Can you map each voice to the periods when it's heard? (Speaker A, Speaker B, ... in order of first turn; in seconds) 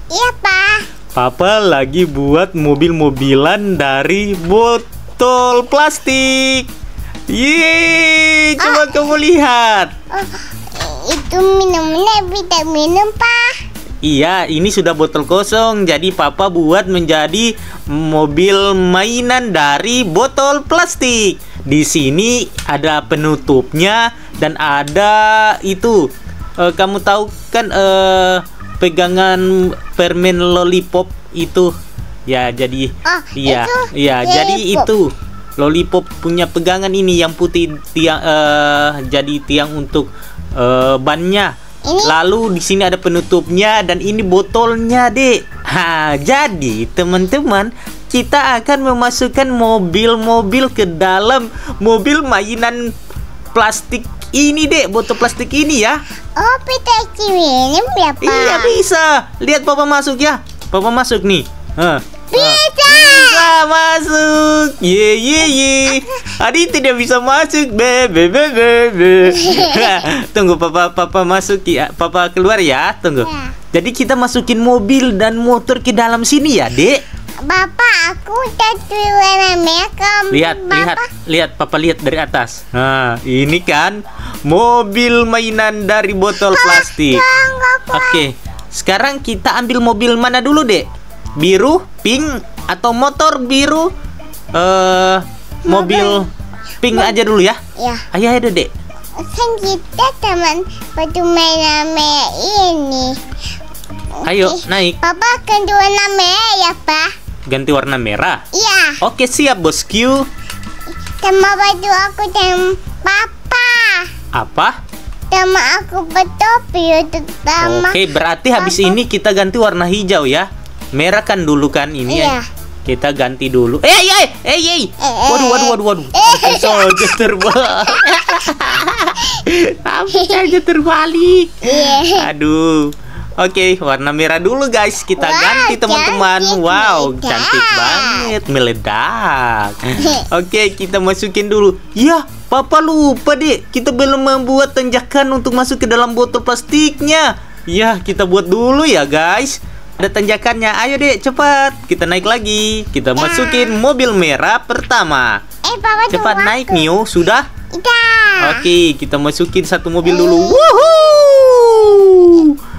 Speaker A: 0.1-0.9, 8.6-8.9, 10.1-13.6, 33.0-34.9, 41.9-42.1, 56.4-58.8, 62.3-63.5, 69.2-70.0, 73.2-73.5, 77.5-81.1, 86.3-88.2, 95.7-96.2, 96.9-97.2, 97.8-98.0, 99.2-103.2, 104.3-107.1, 108.5-109.0, 111.2-114.1, 115.3-118.0, 118.6-119.0, 122.1-122.5, 125.0-128.4, 130.1-130.4, 131.6-132.3, 135.2-138.3, 140.0-140.2, 153.2-153.8, 155.6-156.9, 157.7-158.7, 160.1-161.2
Speaker B: 1.1-6.7, 7.3-9.9, 14.0-26.1, 26.6-31.7, 32.3-52.8, 53.5-56.0, 58.2-77.0, 80.3-87.2, 87.9-90.9, 91.4-93.9, 94.5-96.3, 96.8-97.6, 98.1-98.7, 104.2-105.0, 107.5-108.4, 109.0-110.2, 114.3-114.8, 117.6-155.4, 156.1-157.5, 158.4-162.6